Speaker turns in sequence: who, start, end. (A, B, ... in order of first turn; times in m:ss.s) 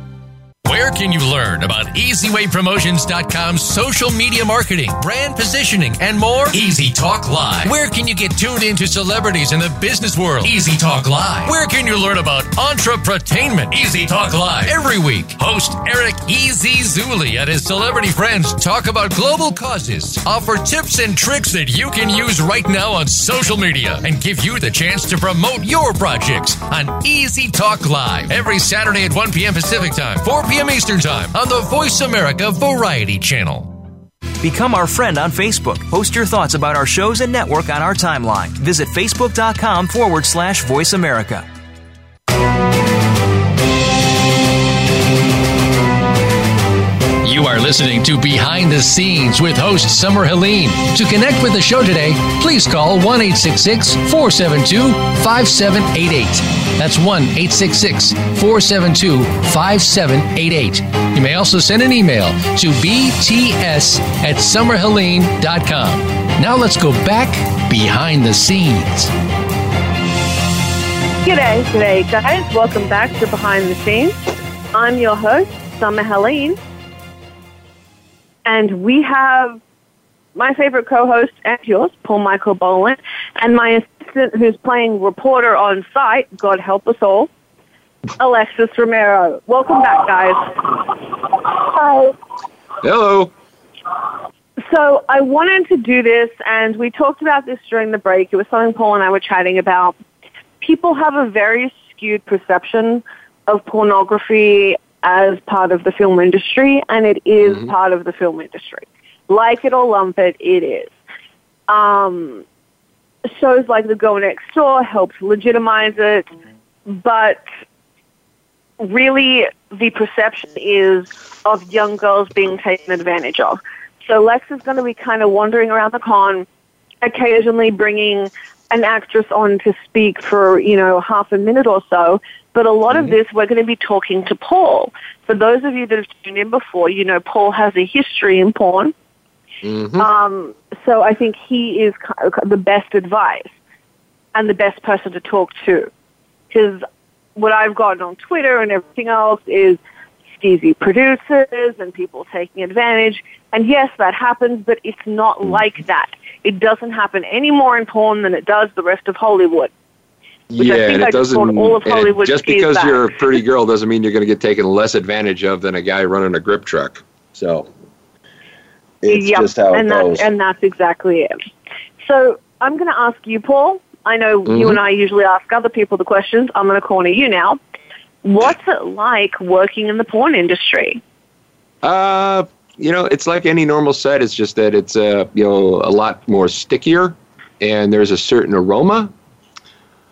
0:00.6-0:33.8 A
0:34.4-0:41.4 B
0:47.2-1:09.1 C
1:11.2-1:14.2 D
1:14.7-1:16.6 D
1:18.4-1:19.6 D
1:20.3-1:27.3 D
1:28.2-1:30.8 D
1:32.8-1:33.3 E
1:34.6-1:39.9 D
1:40.6-1:50.9 D
1:51.7-1:52.4 D
1:53.2-1:56.3 D
1:56.9-1:57.4 D
1:58.8-2:06.5 D
2:07.0-2:18.9 D
2:19.6-2:20.0 E
2:20.0-2:23.5 D
2:24.3-2:25.9 D
2:26.5-2:26.8 D
2:27.4-2:29.8 D
2:30.4-2:39.7 D
2:40.5-2:47.7 E
2:40.6-2:43.2 D
2:49.0-2:50.3 E
2:49.1-2:51.3 D
2:52.0-2:57.6 D
2:54.5-2:54.8 E
2:58.2-3:01.0 D
3:01.8-3:09.1 E